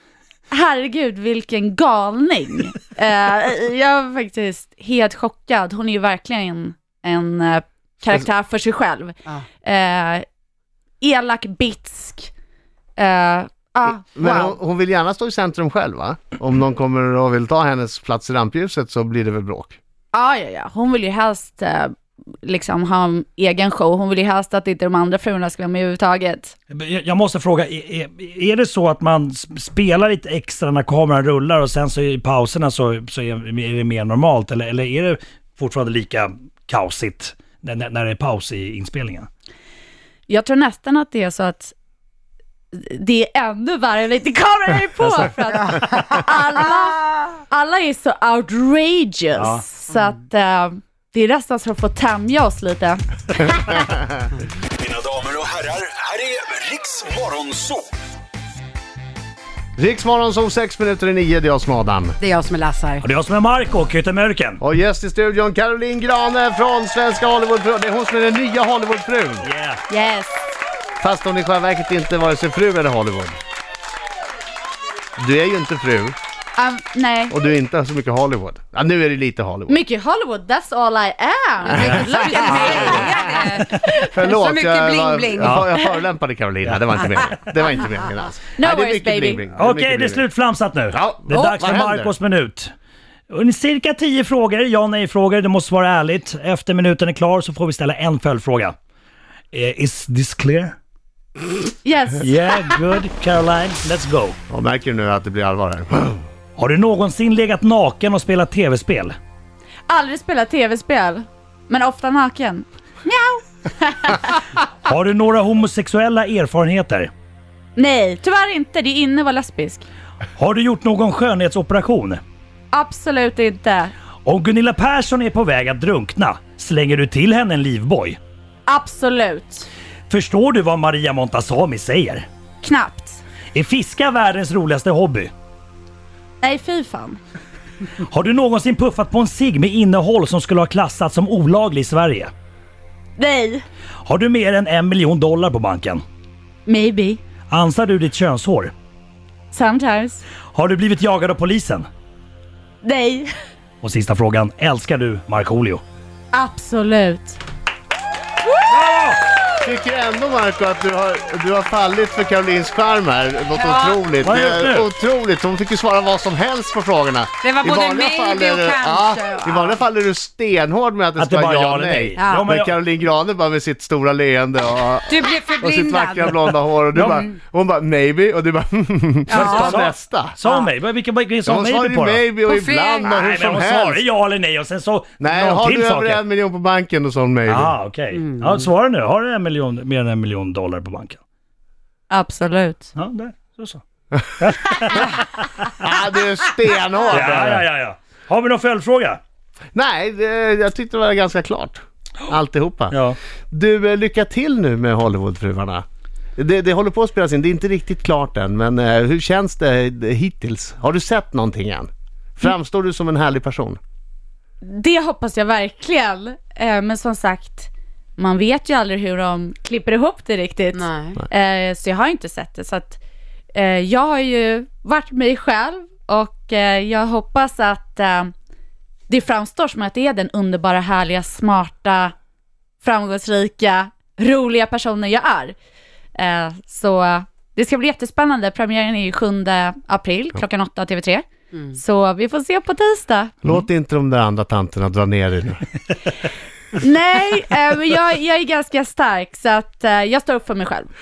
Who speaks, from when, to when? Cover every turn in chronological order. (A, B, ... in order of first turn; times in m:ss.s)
0:00.5-0:10.2 A
0:11.0-0:12.3 A
0:13.0-0:14.6 A
0:14.1-0:19.8 B
0:20.1-0:26.5 A
0:26.7-0:39.3 C
0:40.3-0:41.7 A
0:42.7-0:53.5 A
0:45.0-0:45.3 C
0:49.4-0:49.6 C
0:54.9-0:55.8 D
0:56.6-0:57.8 D
0:59.8-1:02.2 B
1:02.2-1:03.0 E
1:03.0-1:04.6 C
1:04.6-1:09.5 B
1:09.4-1:09.8 C
1:09.9-1:10.5 A
1:11.0-1:13.4 B
1:15.2-1:16.1 B
1:16.6-1:17.3 A
1:17.3-1:19.8 B
1:19.7-1:23.8 A
1:21.7-1:25.6 E
1:22.5-1:22.9 B
1:23.8-1:30.2 B
1:28.6-1:29.4 A
1:29.5-1:32.7 C
1:30.9-1:32.1 B
1:33.3-1:38.8 C
1:39.5-1:40.8 C
1:41.8-1:42.8 A
1:42.2-1:44.4 C
1:44.5-1:46.2 B
1:46.6-1:49.2 C
1:49.9-1:54.4 A
1:54.8-1:57.1 C
1:57.8-1:59.8 A
2:00.4-2:02.2 C
2:02.7-2:03.9 A
2:04.2-2:08.2 C
2:08.7-2:09.7 A
2:10.1-2:12.3 C
2:12.6-2:13.2 A
2:13.5-2:15.3 C
2:16.4-2:17.2 A
2:18.0-2:22.3 C
2:23.2-2:23.6 A
2:24.0-2:26.0 C
2:26.6-2:27.2 A
2:27.5-2:28.7 C
2:29.5-2:30.2 A
2:30.5-2:31.9 C
2:32.8-2:33.3 A
2:33.8-2:35.8 C
2:36.3-2:37.4 A
2:38.7-2:39.2 C
2:39.6-3:00.4 B
2:43.5-2:44.0 E
2:44.2-2:44.9 C
2:47.4-2:49.8 E
2:51.2-2:52.8 C
2:52.2-2:52.4 E
2:55.1-2:57.2 E
2:57.0-2:57.2 C
2:59.3-2:59.7 E
2:59.3-3:02.3 C
3:01.4-3:04.0 B
3:02.4-3:03.1 E
3:03.0-3:06.2 C
3:05.2-3:07.7 B
3:07.5-3:11.2 C
3:08.1-3:08.7 E
3:12.1-3:12.9 A
3:12.9-3:13.8 C
3:14.4-3:15.8 C
3:15.8-3:17.6 B
3:17.1-3:19.2 C
3:19.7-3:23.0 B
3:22.9-3:23.2 C
3:23.5-3:25.8 B
3:26.4-3:33.8 B
3:34.6-3:43.0 A
3:40.7-3:41.2 E
3:43.5-3:48.3 A
3:49.1-3:52.1 A
3:52.8-3:55.6 A
3:56.2-4:03.3 A
4:03.4-4:05.6 B
4:06.8-4:10.9 A